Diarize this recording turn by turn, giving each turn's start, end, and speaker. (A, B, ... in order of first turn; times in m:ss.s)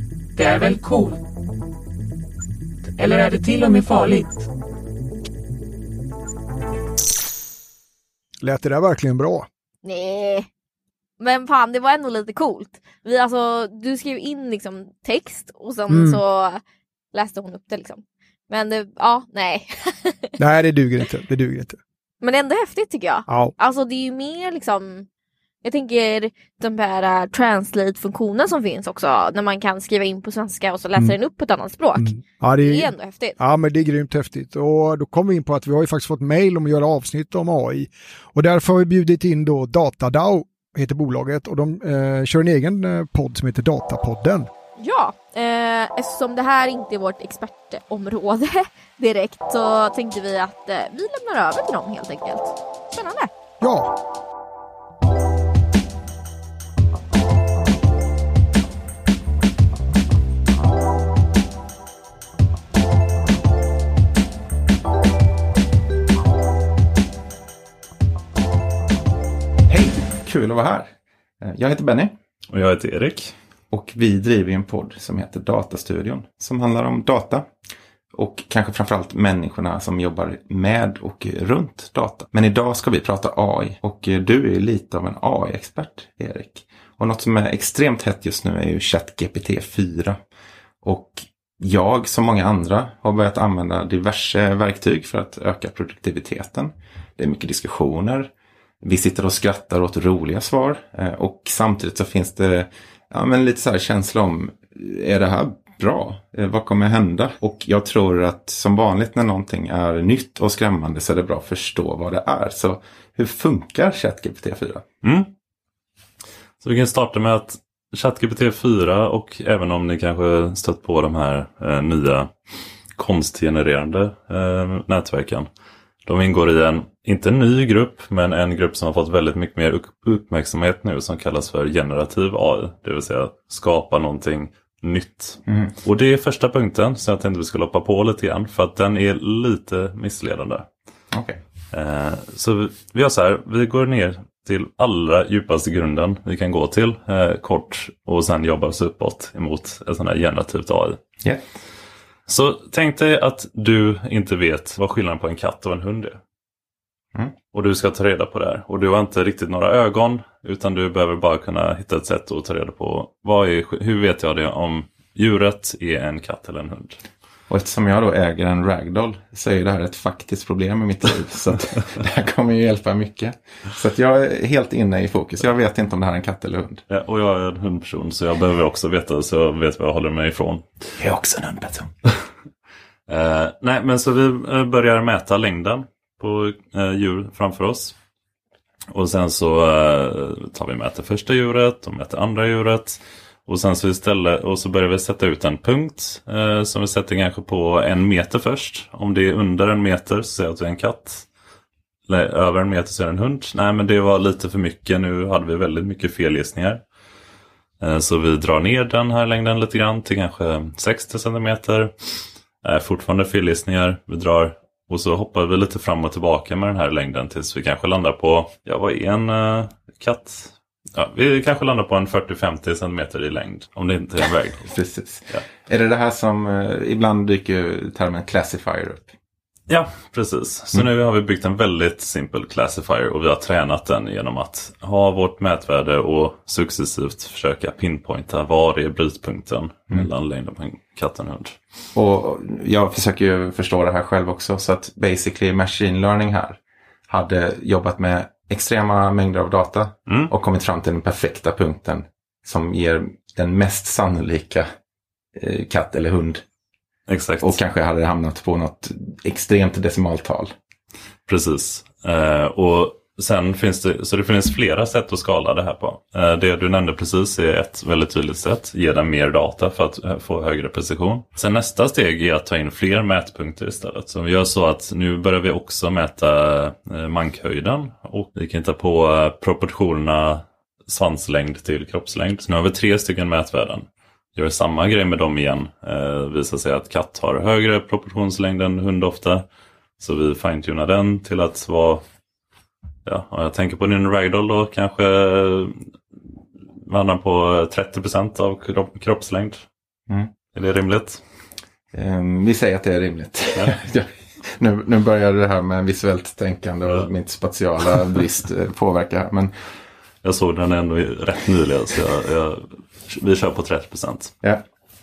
0:00.4-0:01.2 A
0:03.0-0:04.5 A
0:08.4-0:09.5 B
0:09.8-0:10.5 C
0:11.2-0:16.6 C
0:15.9-0:16.2 B
0:17.1-0:20.4 C
0:20.4-0:21.8 B
0:22.2-0:25.1 C
0:23.3-0:23.5 B
0:25.6-0:33.4 C
0:32.0-0:44.5 B
0:44.8-0:53.3 C
0:53.6-0:53.9 B
1:09.7-1:12.2 D
1:12.5-1:13.4 E
1:13.7-1:17.5 D
1:18.1-1:30.2 D
1:30.8-1:54.8 D
1:55.0-1:55.3 E
1:56.6-2:02.3 E
2:03.0-2:05.5 E
2:06.1-2:20.7 E
2:15.5-2:15.8 D
2:21.1-2:21.4 D
2:21.7-2:31.0 E
2:32.3-2:36.2 E
2:37.5-2:47.0 E
2:47.5-2:56.8 D
2:56.9-3:00.9 E
3:01.0-3:01.9 D
3:03.1-3:08.0 E
3:08.9-3:21.3 E
3:22.1-3:26.8 E
3:27.8-3:44.7 E
3:44.7-3:49.1 D
3:49.7-4:01.6 E
4:02.0-4:14.7 D
4:15.4-4:16.4 D
4:17.1-4:17.6 E
4:17.4-4:20.5 D
4:21.3-4:49.5 E
4:50.0-4:52.0 E
4:53.0-4:55.9 E
4:56.9-4:59.6 E
5:00.5-5:01.2 E
5:01.9-5:09.5 D
5:10.2-5:14.3 E